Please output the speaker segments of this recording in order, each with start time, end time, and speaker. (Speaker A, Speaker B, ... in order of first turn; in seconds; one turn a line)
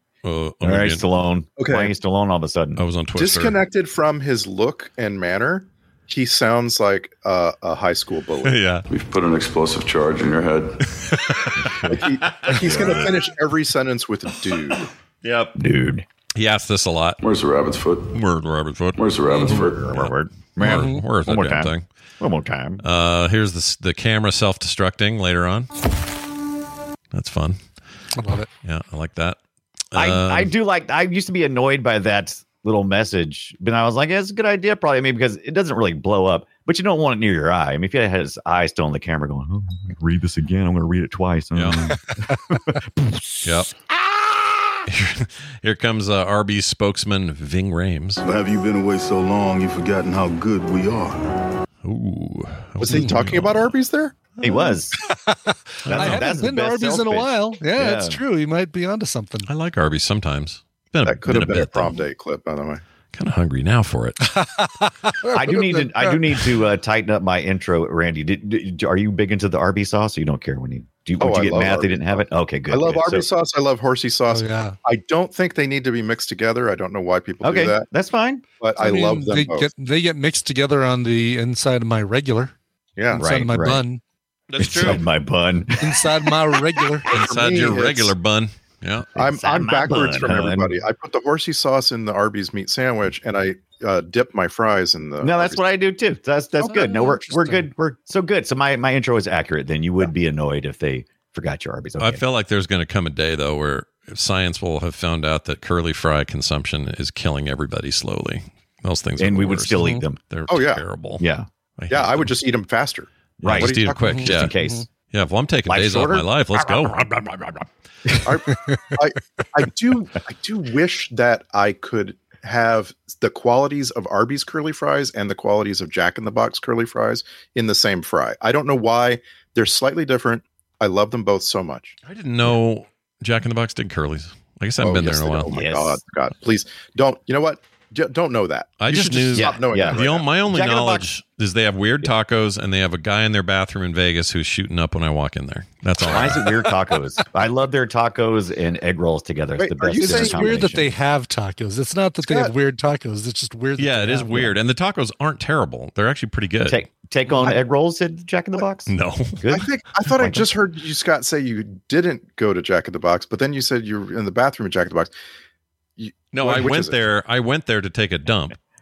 Speaker A: 0.2-1.0
Speaker B: 0.6-2.8
Speaker C: 1.6-1.9
Speaker A: 2.8-3.6
Speaker C: 3.2-8.6
Speaker A: 8.4-8.9
Speaker D: 8.9-10.8
Speaker A: 10.9-11.9
Speaker B: 11.6-13.1
Speaker C: 11.9-14.9
Speaker A: 12.4-13.1
Speaker A: 15.2-15.5
Speaker B: 15.6-16.1
Speaker A: 16.4-17.2
Speaker D: 17.2-18.1
Speaker A: 18.1-21.9
Speaker D: 19.0-19.8
Speaker B: 19.4-22.8
Speaker E: 20.6-21.0
Speaker A: 22.8-25.7
Speaker A: 27.1-27.6
Speaker E: 28.2-28.5
Speaker A: 28.6-29.4
Speaker A: 29.9-30.5
Speaker B: 29.9-43.4
Speaker A: 41.5-41.8
Speaker E: 42.3-42.8
Speaker A: 43.4-43.7
Speaker B: 44.1-44.8
Speaker A: 44.9-48.2
Speaker F: 48.2-51.3
Speaker A: 51.8-53.7
Speaker C: 52.8-54.1
Speaker E: 52.9-53.1
Speaker B: 54.4-55.0
Speaker E: 55.0-59.5
Speaker A: 55.9-56.3
Speaker B: 55.9-58.2
Speaker A: 59.5-62.0
Speaker C: 61.0-62.8
Speaker A: 63.1-64.2
Speaker E: 64.2-66.5
Speaker B: 65.3-73.3
Speaker C: 71.2-77.8
Speaker E: 74.3-74.8
Speaker B: 77.4-78.4
Speaker C: 78.6-79.7
Speaker E: 78.8-82.5
Speaker C: 83.0-83.2
Speaker B: 83.1-83.8
Speaker E: 83.2-84.0
Speaker A: 84.5-85.0
Speaker B: 84.6-86.1
Speaker E: 85.8-87.1
Speaker C: 87.1-88.1
Speaker A: 87.1-89.1
Speaker B: 89.2-90.8
Speaker C: 89.2-95.6
Speaker B: 95.2-102.2
Speaker E: 96.6-97.7
Speaker A: 102.0-111.2
Speaker B: 109.2-110.2
Speaker E: 109.8-110.0
Speaker C: 110.5-110.8
Speaker B: 111.2-111.5
Speaker A: 111.8-112.3
Speaker C: 111.9-114.1
Speaker B: 113.4-114.9
Speaker A: 113.4-114.5
Speaker E: 114.0-114.8
Speaker A: 115.1-117.6
Speaker B: 115.7-118.4
Speaker C: 118.2-132.0
Speaker A: 132.1-135.5
Speaker C: 134.8-140.3
Speaker B: 135.5-136.0
Speaker A: 138.8-146.5
Speaker B: 139.3-141.1
Speaker B: 146.0-150.9
Speaker C: 149.6-150.7
Speaker E: 150.0-154.5
Speaker C: 152.3-152.5
Speaker A: 153.8-156.8
Speaker B: 156.7-160.5
Speaker A: 158.9-159.4
Speaker C: 159.5-165.1
Speaker C: 166.0-167.0
Speaker A: 166.3-168.6